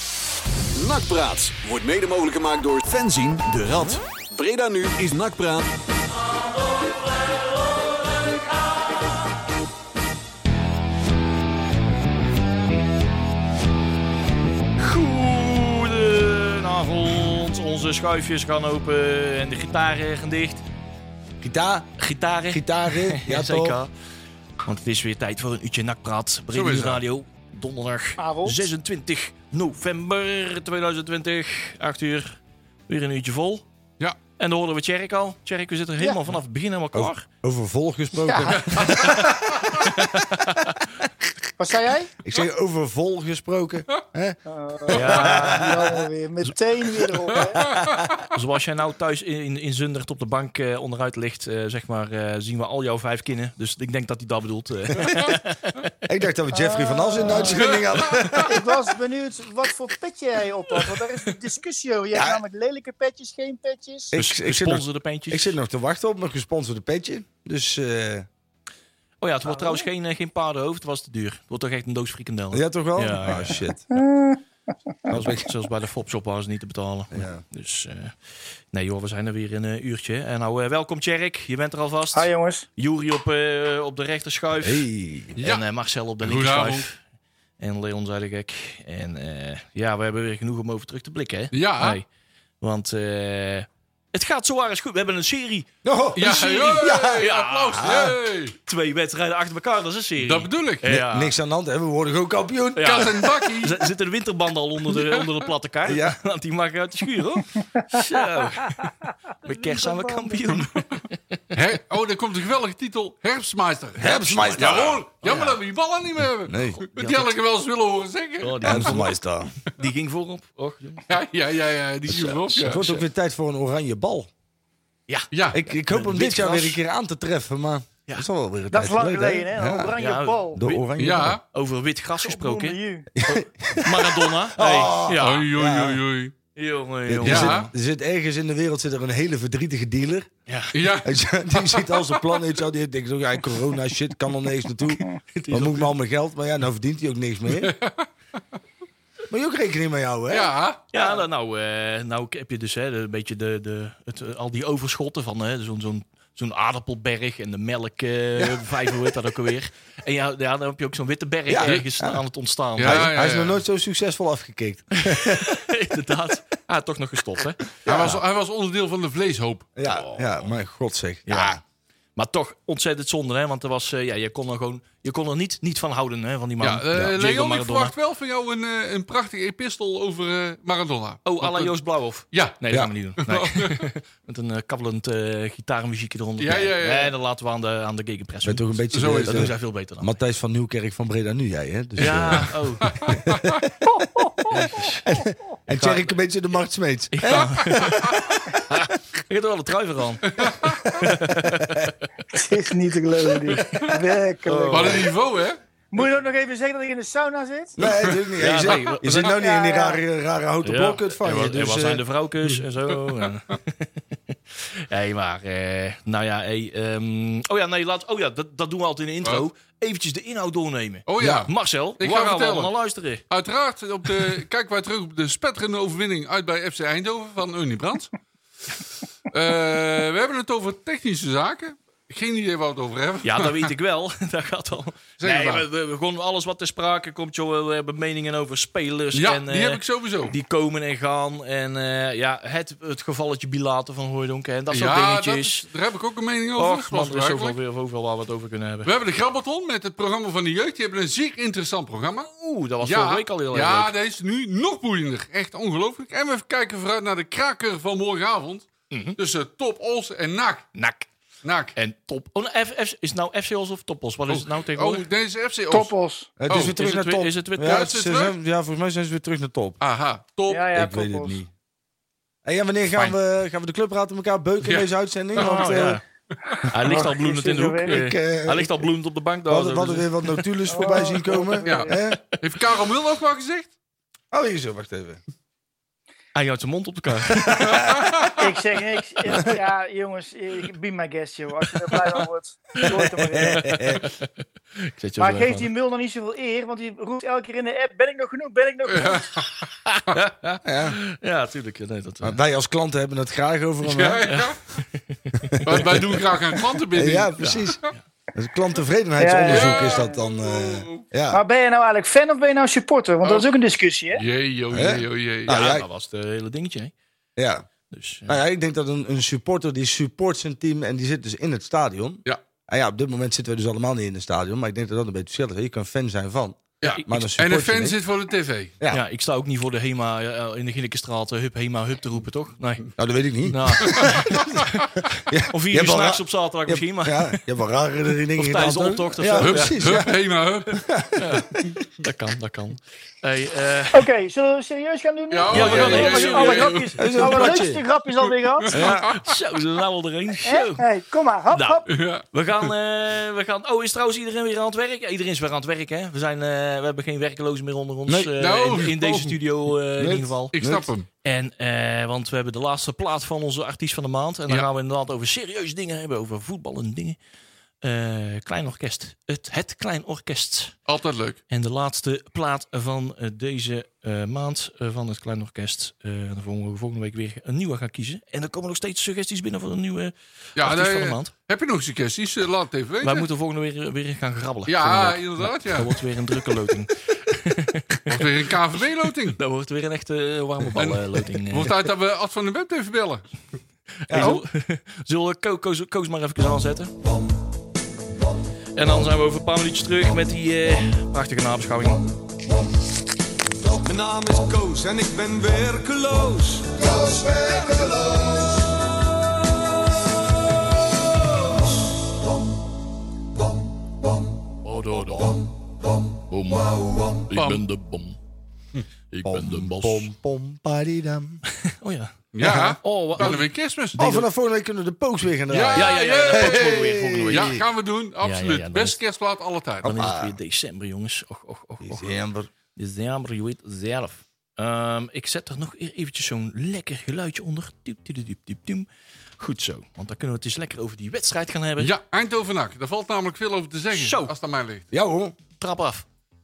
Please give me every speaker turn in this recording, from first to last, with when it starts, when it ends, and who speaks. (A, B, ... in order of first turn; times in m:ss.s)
0:00.7-0:05.7 A
0:14.8-0:20.6 B
0:21.4-0:21.9 C
0:22.0-0:23.9 B
0:22.5-0:23.8 C
0:24.6-0:33.6 B
0:26.5-0:27.0 D
0:28.2-0:28.7 E
0:34.4-0:37.3 B
0:36.9-0:39.6 C
0:38.2-0:38.5 E
0:38.5-0:39.7 D
0:38.8-0:40.9 B
0:41.6-0:42.1 E
0:42.2-0:44.4 C
0:44.5-0:47.7 E
0:44.9-0:45.7 B
0:45.0-0:46.0 C
0:47.6-0:48.1 C
0:47.7-0:48.0 D
0:48.3-0:55.9 B
0:56.0-0:58.7 C
0:56.5-0:57.8 E
0:57.5-0:58.4 D
0:58.4-1:04.1 E
1:02.1-1:02.4 C
1:04.1-1:08.3 C
1:04.1-1:05.6 B
1:09.2-1:13.6 B
1:09.5-1:09.8 E
1:12.5-1:13.9 C
1:13.9-1:14.4 E
1:15.1-1:15.5 C
1:15.1-1:18.1 B
1:17.1-1:17.4 C
1:18.7-1:24.8 B
1:22.1-1:22.6 E
1:24.6-1:25.4 C
1:25.4-1:25.6 D
1:25.4-1:27.0 B
1:26.2-1:26.8 D
1:27.6-1:32.0 B
1:31.5-1:32.0 D
1:32.6-1:35.7 B
1:35.8-1:38.1 C
1:36.2-1:38.5 D
1:36.2-1:37.9 B
1:38.6-1:41.3 B
1:40.2-1:40.8 D
1:40.8-1:43.3 C
1:42.8-1:51.4 B
1:42.8-1:43.8 D
1:45.8-1:46.2 C
1:49.4-1:50.6 E
1:51.5-1:58.9 D
1:54.0-1:55.0 C
1:55.2-1:55.6 B
1:56.4-1:56.8 C
1:56.8-1:57.4 B
1:58.4-1:59.1 B
1:58.6-1:59.5 C
1:59.6-2:01.2 B
2:01.1-2:02.8 D
2:02.1-2:03.0 B
2:02.6-2:04.3 C
2:05.1-2:06.8 B
2:05.3-2:05.6 D
2:05.5-2:09.9 C
2:08.7-2:10.6 E
2:10.0-2:10.9 B
2:10.6-2:11.4 C
2:11.0-2:11.4 D
2:11.5-2:15.5 B
2:12.2-2:13.1 E
2:13.1-2:16.0 C
2:15.2-2:16.3 D
2:16.5-2:17.7 B
2:17.1-2:20.3 C
2:17.2-2:17.7 D
2:20.5-2:20.7 B
2:20.7-2:22.4 D
2:21.0-2:27.7 C
2:25.3-2:25.9 B
2:27.5-2:28.1 D
2:29.3-2:30.5 C
2:30.3-2:30.8 D
2:30.9-2:43.2 B
2:41.5-2:42.2 C
2:42.8-2:43.6 D
2:42.8-2:45.5 C
2:45.0-2:47.7 B
2:47.8-2:48.2 C
2:47.8-2:50.0 D
2:49.8-2:51.6 C
2:51.3-2:51.6 B
2:52.2-2:57.9 B
2:56.6-3:01.7 D
3:01.2-3:10.1 B
3:02.3-3:02.6 D
3:03.2-3:03.8 D
3:06.4-3:07.1 D
3:08.4-3:14.0 C
3:08.9-3:09.5 D
3:12.0-3:13.0 B
3:12.8-3:13.5 D
3:13.9-3:14.6 E
3:14.5-3:18.8 C
3:14.5-3:15.1 B
3:15.7-3:16.2 B
3:17.1-3:22.1 B
3:17.9-3:18.3 D
3:20.3-3:21.0 D
3:20.6-3:21.9 C
3:22.3-3:25.1 E
3:23.5-3:24.0 D
3:24.4-3:25.1 B
3:24.7-3:25.6 D
3:25.9-3:27.8 E
3:27.8-3:32.0 C
3:27.8-3:29.0 D
3:28.4-3:29.3 B
3:29.2-3:30.0 E
3:30.6-3:43.2 B
3:41.1-3:42.7 D
3:43.3-3:48.2 D
3:49.3-3:53.7 D
3:53.2-4:05.7 B
3:55.2-3:55.6 D
3:59.1-4:00.3 D
4:04.7-4:07.6 D
4:06.6-4:08.9 B
4:08.8-4:12.3 D
4:12.3-4:13.9 B
4:12.8-4:20.7 D
4:18.9-4:19.2 B
4:20.7-4:21.1 B
4:21.4-4:21.7 D
4:21.8-4:25.1 B
4:24.3-4:25.9 D
4:25.7-4:26.3 E
4:26.4-4:29.8 C
4:26.5-4:27.9 B
4:26.5-4:26.8 D
4:27.6-4:28.3 D
4:29.8-4:30.8 D
4:30.5-4:31.4 E
4:30.7-4:31.5 C
4:32.4-4:36.0 C
4:34.6-4:34.9 D
4:35.3-4:36.0 B
4:35.4-4:35.9 E
4:36.7-4:40.1 B
4:36.8-4:38.0 E
4:37.8-4:38.9 C
4:39.5-4:42.2 C
4:40.7-4:41.9 E
4:41.6-4:43.7 D
4:44.3-4:45.2 C
4:46.3-4:47.9 B
4:47.6-4:48.4 D
4:47.7-4:48.0 C
4:48.4-4:53.7 E
4:52.8-4:54.0 C
4:53.4-4:55.7 B
4:55.2-4:59.3 E
4:58.9-4:59.7 D
4:59.8-5:02.4 B
5:00.6-5:01.0 C
5:02.2-5:04.3 C
5:03.8-5:04.8 D
5:04.3-5:05.6 B
5:05.5-5:06.2 C
5:05.6-5:07.8 D
5:06.9-5:11.4 C
5:07.4-5:08.0 B
5:09.2-5:10.2 E
5:09.4-5:11.0 D
5:11.3-5:14.2 E
5:13.2-5:13.5 D
5:14.1-5:15.8 D
5:14.7-5:15.8 C
5:15.5-5:16.9 B
5:17.4-5:17.6 C
5:17.9-5:18.4 B
5:18.3-5:28.0 C
5:26.8-5:28.7 D
5:26.8-5:27.1 B
5:28.9-5:32.9 B
5:33.0-5:34.4 C
5:33.4-5:37.4 B
5:35.3-5:40.1 C
5:38.3-5:39.9 B
5:39.4-5:40.8 D
5:40.8-5:41.8 C
5:41.2-5:44.1 B
5:43.9-5:48.8 E
5:45.3-5:47.0 D
5:45.5-5:47.6 B
5:45.6-5:46.0 C
5:47.0-5:47.8 C
5:48.2-5:49.3 D
5:48.7-5:49.1 C
5:49.0-5:50.9 B
5:50.4-5:51.9 E
5:51.5-6:00.5 B
5:51.9-5:52.7 D
5:58.4-5:59.4 D
6:00.0-6:00.9 C
6:00.5-6:01.1 D
6:01.2-6:07.2 B
6:07.8-6:10.7 B
6:10.9-6:11.4 D
6:11.5-6:21.3 B
6:20.6-6:23.3 D
6:23.0-6:28.5 B
6:24.7-6:26.0 D
6:28.1-6:29.4 D
6:29.3-6:31.7 B
6:30.8-6:33.2 D
6:34.1-6:36.9 B
6:34.1-6:34.4 C
6:38.8-6:42.0 B
6:43.8-6:48.3 F
6:54.6-6:55.4 B
6:56.3-6:58.2 B
6:57.3-6:57.6 D
6:59.1-7:00.1 B
6:59.2-7:01.4 C
7:01.5-7:03.4 B
7:02.3-7:04.0 D
7:02.4-7:03.4 C
7:04.0-7:07.6 C
7:04.0-7:04.2 B
7:05.5-7:09.9 D
7:05.5-7:07.6 B
7:08.2-7:09.0 B
7:09.8-7:10.3 C
7:09.8-7:12.1 B
7:11.8-7:12.5 C
7:12.8-7:18.8 B
7:19.4-7:21.9 B
7:21.8-7:24.8 D
7:23.9-7:24.3 B
7:24.9-7:25.3 C
7:25.6-7:26.0 B